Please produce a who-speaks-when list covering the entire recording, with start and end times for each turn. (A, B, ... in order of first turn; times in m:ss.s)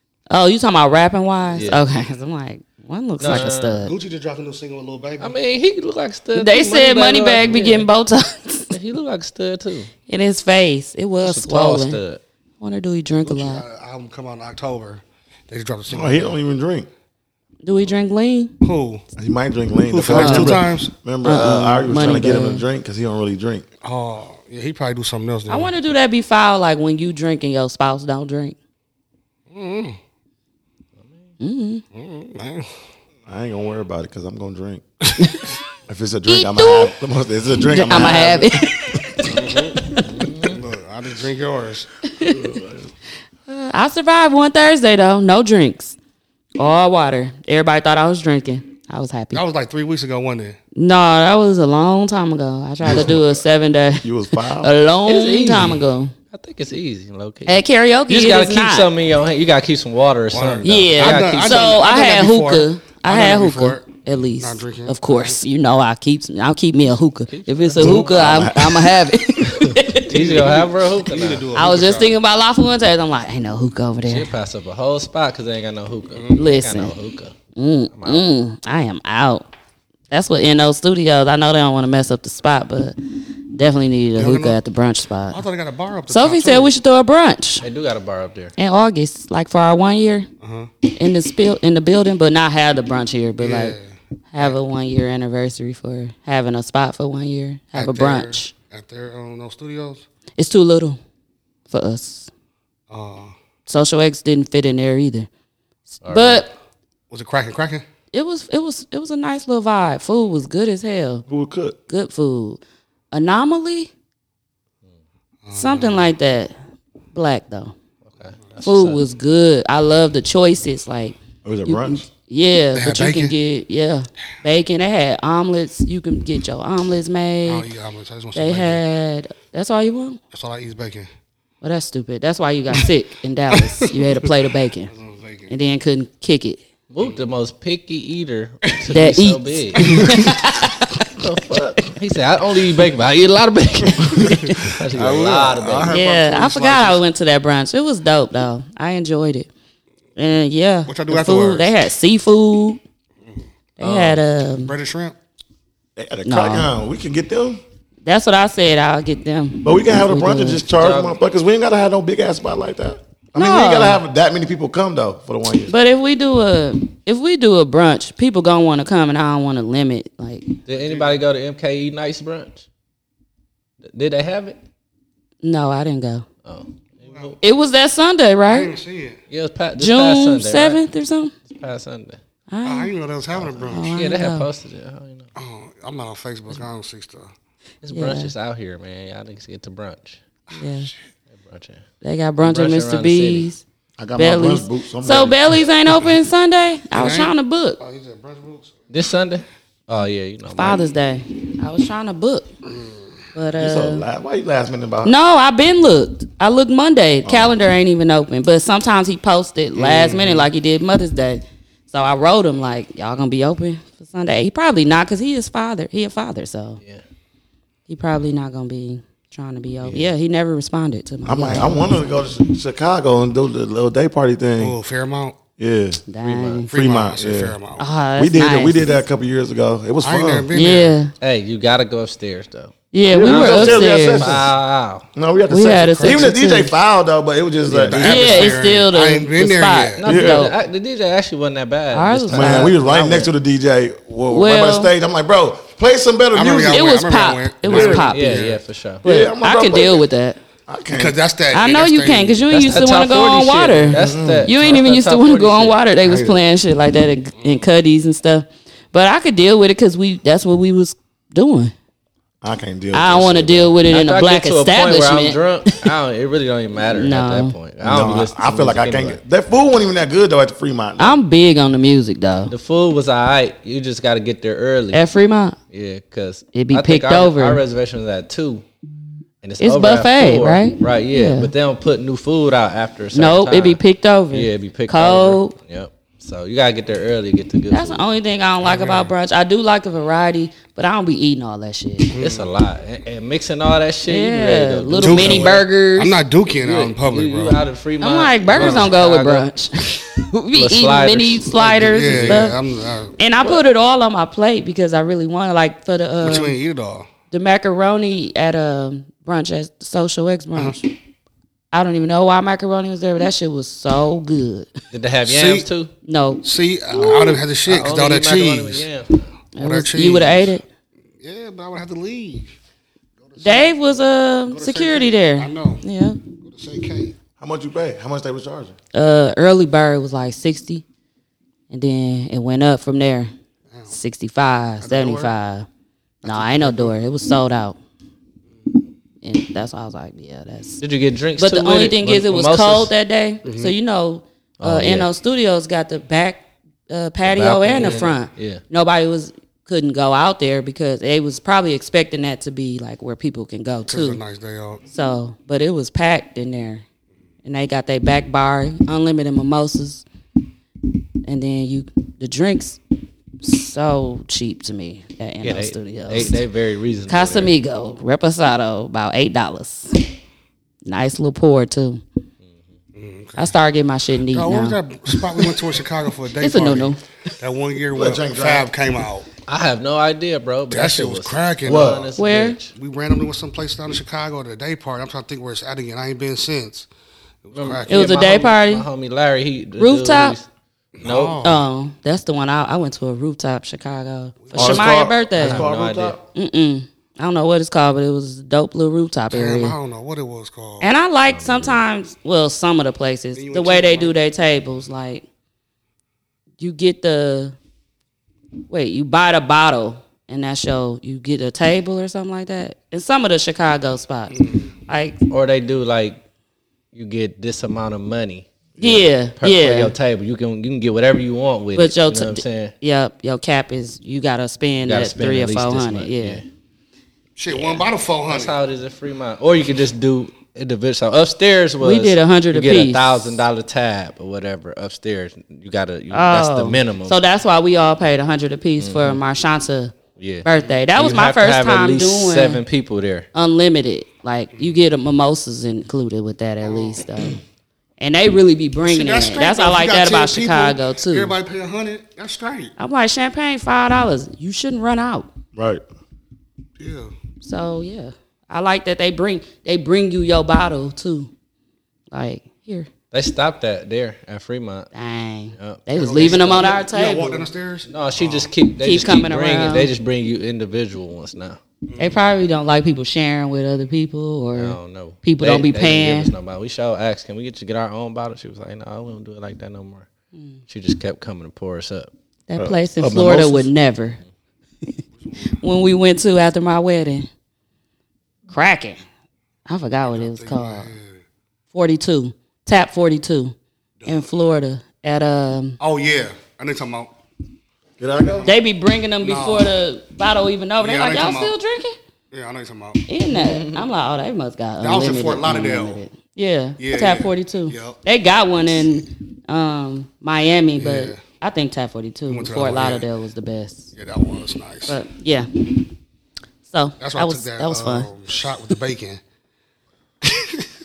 0:00.3-0:03.9 A
0:01.6-0:01.8 B
0:03.2-0:03.9 B
0:03.3-0:05.3 C
0:05.2-0:07.9 B
0:06.3-0:08.7 A
0:08.7-0:09.9 B
0:10.1-0:12.0 A
0:11.2-0:12.2 B
0:12.6-0:13.6 A
0:13.2-0:16.3 C
0:15.9-0:16.9 D
0:17.6-0:18.5 A
0:18.6-0:19.0 C
0:19.2-0:23.7 D
0:19.9-0:20.9 C
0:20.1-0:20.6 A
0:21.2-0:22.6 A
0:23.8-0:25.7 C
0:25.5-0:28.6 A
0:29.5-0:30.0 C
0:31.4-0:31.8 A
0:31.9-0:32.7 C
0:33.2-0:34.8 D
0:35.9-0:38.7 D
0:36.3-0:36.9 A
0:37.7-0:40.0 A
0:39.2-0:39.8 C
0:40.0-0:40.5 D
0:40.1-0:40.6 B
0:40.4-0:41.9 C
0:42.1-0:42.5 A
0:42.2-0:42.9 D
0:43.5-0:46.0 A
0:46.6-0:49.4 A
0:49.3-0:50.6 C
0:50.7-0:56.1 A
0:52.8-0:53.4 D
0:54.0-0:54.7 D
0:55.1-1:01.7 B
0:57.4-0:58.9 A
1:00.3-1:05.4 C
1:00.6-1:10.4 A
1:07.3-1:08.2 B
1:07.8-1:09.4 D
1:09.5-1:11.5 B
1:10.1-1:12.2 C
1:11.5-1:14.3 A
1:14.0-1:17.3 B
1:16.3-1:16.9 A
1:17.6-1:19.5 A
1:17.9-1:18.2 B
1:20.1-1:23.0 A
1:23.5-1:25.4 A
1:24.2-1:24.6 C
1:25.3-1:26.7 C
1:26.1-1:27.6 A
1:27.6-1:28.5 B
1:28.6-1:30.3 A
1:30.4-1:30.7 C
1:30.9-1:33.8 A
1:33.4-1:34.6 C
1:34.3-1:38.5 A
1:37.7-1:40.0 C
1:40.4-1:41.0 A
1:41.7-1:42.3 A
1:42.9-1:43.3 C
1:43.7-1:45.3 A
1:46.0-1:46.5 A
1:46.0-1:46.4 B
1:47.1-1:47.8 C
1:48.1-1:51.2 A
1:51.3-1:51.8 D
1:51.9-1:52.6 A
1:53.1-1:53.9 A
1:55.4-1:56.1 C
1:55.5-1:56.6 A
1:57.1-1:57.7 A
1:58.0-1:59.0 B
1:58.6-2:07.7 A
2:01.4-2:02.0 D
2:02.7-2:03.3 C
2:07.4-2:08.8 C
2:08.3-2:10.2 A
2:10.3-2:11.1 C
2:11.6-2:14.9 A
2:13.5-2:14.3 C
2:14.9-2:15.5 C
2:15.5-2:16.6 A
2:16.9-2:20.1 B
2:18.9-2:21.1 A
2:19.8-2:20.2 C
2:21.2-2:25.9 B
2:24.2-2:27.0 C
2:25.9-2:29.5 A
2:30.2-2:32.8 A
2:30.9-2:31.7 C
2:33.8-2:34.7 A
2:33.8-2:34.2 B
2:34.6-2:35.2 C
2:36.0-2:37.6 D
2:36.2-2:36.7 A
2:38.0-2:40.6 A
2:39.6-2:45.7 D
2:40.7-2:41.2 B
2:43.3-2:44.0 A
2:45.7-2:50.5 A
2:50.7-2:52.6 B
2:50.7-2:51.2 C
2:53.8-2:54.6 B
2:55.4-2:56.2 A
2:56.4-2:57.4 B
2:57.1-2:57.4 C
2:57.4-2:58.7 A
2:58.5-2:59.2 C
2:59.3-3:00.8 B
2:59.8-3:01.3 A
3:01.5-3:02.2 B
3:02.5-3:02.9 A
3:02.6-3:04.0 C
3:03.3-3:05.3 B
3:03.7-3:04.5 A
3:05.4-3:07.3 C
3:07.8-3:10.2 B
3:07.9-3:08.3 A
3:10.5-3:10.9 A
3:11.3-3:11.8 B
3:12.0-3:13.6 A
3:12.4-3:13.5 B
3:14.0-3:15.7 D
3:14.2-3:17.8 A
3:16.9-3:18.7 C
3:18.9-3:20.8 B
3:20.5-3:22.5 A
3:22.7-3:23.0 C
3:23.3-3:24.0 A
3:23.6-3:25.1 D
3:25.0-3:36.8 A
3:27.2-3:27.6 D
3:29.8-3:30.5 C
3:37.9-3:41.9 A
3:39.8-3:40.1 B
3:41.2-3:44.8 D
3:44.6-3:45.4 C
3:45.6-3:46.0 D
3:46.1-3:46.7 A
3:46.2-3:46.6 B
3:46.7-3:47.9 C
3:46.7-3:47.6 D
3:47.8-3:49.0 A
3:48.2-3:50.5 D
3:50.0-3:50.9 C
3:50.5-3:51.1 A
3:51.2-3:55.0 B
3:52.9-3:54.3 A
3:53.1-3:54.5 D
3:55.1-3:58.4 D
3:55.5-3:56.7 A
3:55.6-3:56.3 C
3:57.7-3:58.6 B
3:57.9-4:00.0 C
3:58.0-4:00.5 A
4:00.0-4:03.3 B
4:00.0-4:00.5 D
4:01.9-4:02.8 A
4:02.3-4:06.9 D
4:04.3-4:04.9 A
4:06.3-4:08.6 C
4:06.7-4:08.3 A
4:07.7-4:08.0 D
4:08.1-4:09.0 B
4:09.0-4:10.0 D
4:09.0-4:10.4 A
4:10.7-4:11.2 D
4:10.9-4:12.4 C
4:11.5-4:21.7 A
4:12.5-4:15.8 B
4:13.9-4:14.5 D
4:16.0-4:16.4 C
4:22.4-4:23.8 D
4:22.9-4:25.9 A
4:23.9-4:29.2 B
4:26.9-4:27.6 A
4:27.8-4:31.2 D
4:31.0-4:32.5 A
4:32.5-4:35.0 B
4:34.9-4:35.6 A
4:35.7-4:38.6 B
4:36.5-4:37.6 A
4:39.4-4:43.8 B
4:39.6-4:41.5 A
4:43.1-4:45.5 A
4:44.3-4:48.0 B
4:47.7-4:52.1 A
4:48.6-4:49.1 C
4:52.1-4:52.5 C
4:52.2-4:55.6 B
4:54.1-4:56.2 A
4:55.0-4:57.6 C
4:56.5-4:59.5 B
4:58.0-5:02.6 A
4:58.6-4:58.9 C
5:00.5-5:02.5 B
5:01.7-5:03.2 C
5:03.2-5:06.6 A
5:06.2-5:07.1 C
5:07.3-5:10.9 A
5:11.7-5:14.7 A
5:14.9-5:15.9 B
5:15.2-5:15.7 C
5:16.0-5:17.4 A
5:16.4-5:18.8 C
5:17.6-5:19.3 B
5:19.5-5:20.6 A
5:19.6-5:20.6 C
5:21.2-5:22.5 C
5:23.2-5:23.8 C
5:23.4-5:26.2 A
5:24.5-5:25.8 C
5:26.4-5:27.2 C
5:27.4-5:28.8 D
5:28.9-5:30.8 A
5:31.7-5:33.3 A
5:33.7-5:34.0 C
5:33.9-5:35.7 A
5:34.8-5:35.3 C
5:36.2-5:36.9 C
5:36.2-5:37.8 A
5:39.2-5:40.8 A
5:40.8-5:42.9 B
5:41.4-5:54.2 A
5:43.4-5:43.7 C
5:44.6-5:45.1 B
5:47.2-5:48.6 B
5:53.9-5:54.8 C
5:54.9-5:56.8 A
5:57.4-6:00.0 A
6:01.2-6:02.8 A
6:03.4-6:06.4 A
6:05.4-6:07.5 B
6:07.1-6:10.0 A
6:10.8-6:12.0 A
6:12.9-6:13.5 C
6:13.4-6:15.6 A
6:14.3-6:19.3 C
6:16.4-6:17.0 A
6:17.9-6:18.7 D
6:19.5-6:22.7 B
6:20.7-6:22.1 C
6:21.6-6:22.1 D
6:22.2-6:22.6 A
6:22.7-6:26.9 C
6:27.4-6:28.2 C
6:27.5-6:30.5 B
6:27.9-6:28.8 A
6:29.8-6:30.4 A
6:31.0-6:31.6 C
6:31.0-6:31.4 B
6:31.4-6:35.6 A
6:34.4-6:34.9 C
6:34.5-6:36.2 D
6:35.4-6:36.1 B
6:36.3-6:39.8 A
6:39.3-6:40.9 C
6:40.8-6:45.2 A
6:41.3-6:41.8 B
6:43.3-6:44.1 C
6:46.6-6:47.6 A
6:48.7-6:55.2 A
6:54.3-6:54.7 C
6:55.3-6:56.2 B
6:56.9-7:02.7 B
6:58.8-6:59.9 A
7:01.8-7:06.4 A
7:04.8-7:06.4 B
7:07.4-7:08.5 C
7:07.5-7:17.2 B
7:11.8-7:13.4 A
7:16.1-7:22.6 A
7:18.8-7:19.2 B
7:20.2-7:20.4 B
7:21.0-7:23.3 B
7:23.3-7:27.4 A
7:26.6-7:27.3 C
7:28.0-7:31.3 A
7:28.8-7:32.7 C
7:32.8-7:35.3 A
7:35.5-7:35.8 D
7:36.8-7:37.1 C
7:37.4-7:41.3 A
7:42.1-7:42.9 A
7:43.1-7:44.9 B
7:44.9-7:47.5 A
7:45.6-7:46.7 B
7:45.9-7:48.5 C
7:47.9-7:51.6 B
7:48.8-7:49.9 A
7:51.9-7:52.3 C
7:52.0-7:56.3 A
7:54.5-8:00.1 B
8:00.7-8:02.1 B
8:02.5-8:04.2 A
8:02.6-8:03.7 D
8:05.2-8:05.6 C
8:05.5-8:07.3 A
8:08.5-8:09.0 A
8:09.7-8:10.9 A
8:10.1-8:11.2 C
8:11.7-8:13.5 A
8:14.0-8:14.3 C
8:14.0-8:15.8 A
8:15.8-8:17.1 C
8:18.0-8:18.5 D
8:18.4-8:22.0 A
8:19.2-8:19.7 C
8:20.8-8:21.5 C
8:22.3-8:23.0 C
8:23.0-8:33.9 A
8:23.4-8:23.6 D
8:24.8-8:26.0 C
8:26.8-8:28.0 C
8:30.8-8:31.2 C
8:32.3-8:33.0 C
8:34.0-8:35.0 C
8:34.9-8:35.5 A
8:36.7-8:38.1 A
8:37.0-8:39.2 C
8:40.2-8:40.6 C